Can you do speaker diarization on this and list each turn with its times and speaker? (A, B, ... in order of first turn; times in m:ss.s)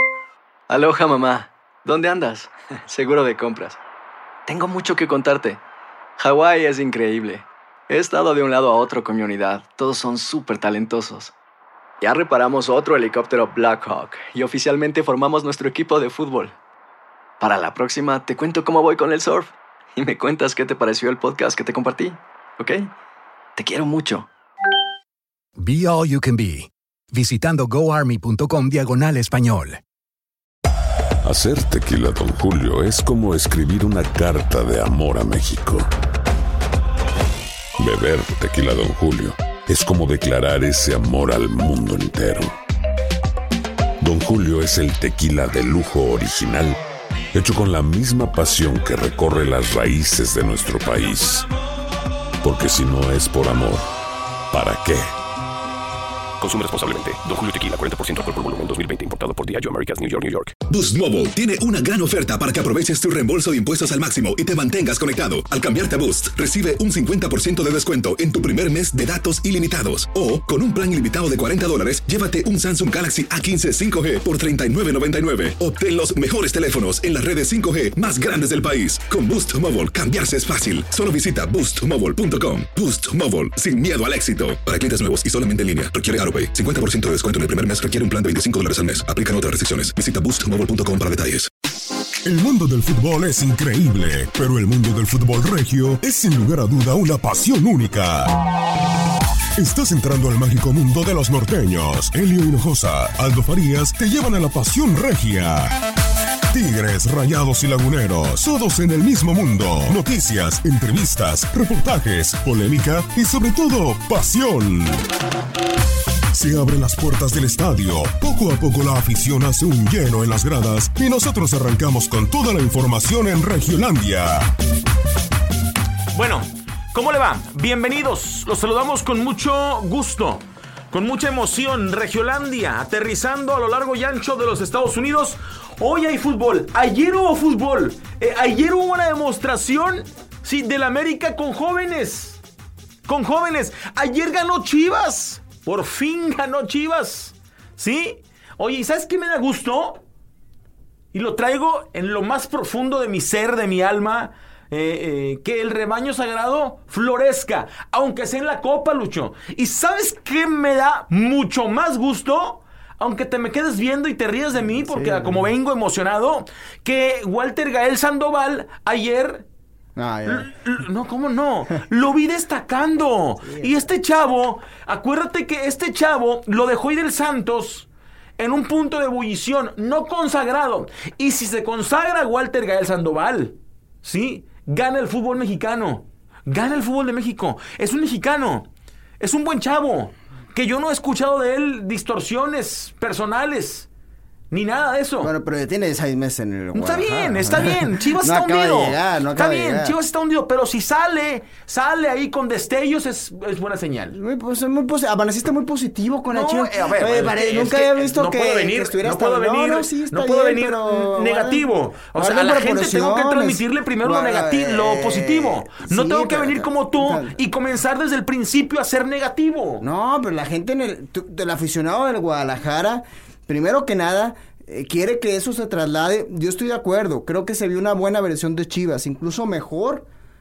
0:00.7-0:03.8 A
0:04.4-0:05.6 A
0:06.2-0:11.3 A
0:12.0-0:16.5 A
0:17.4-0:22.9 A
0:23.6-0:24.3 A
0:25.6-0:29.8 B
0:31.2-0:35.9 C
0:37.8-0:42.5 C
0:44.0-0:46.8 C
0:47.3-0:51.5 C
0:52.4-0:53.9 C
0:54.5-0:55.1 C
0:56.4-1:00.5 D
1:00.7-1:31.5 E
1:32.2-1:38.3 F
1:39.6-1:45.7 F
1:46.5-1:55.0 F
1:56.3-2:04.4 F
2:06.1-2:22.4 G
2:23.0-2:30.0 G
2:31.1-2:49.4 G
2:44.9-2:45.5 H
2:50.0-2:50.5 H
2:50.3-3:08.7 G
2:53.4-2:53.7 H
3:09.2-3:13.9 G
3:14.5-3:15.3 G
3:15.2-3:19.9 H
3:16.7-3:24.2 G
3:24.1-3:37.4 H
3:26.3-3:39.8 G
3:39.8-3:50.0 H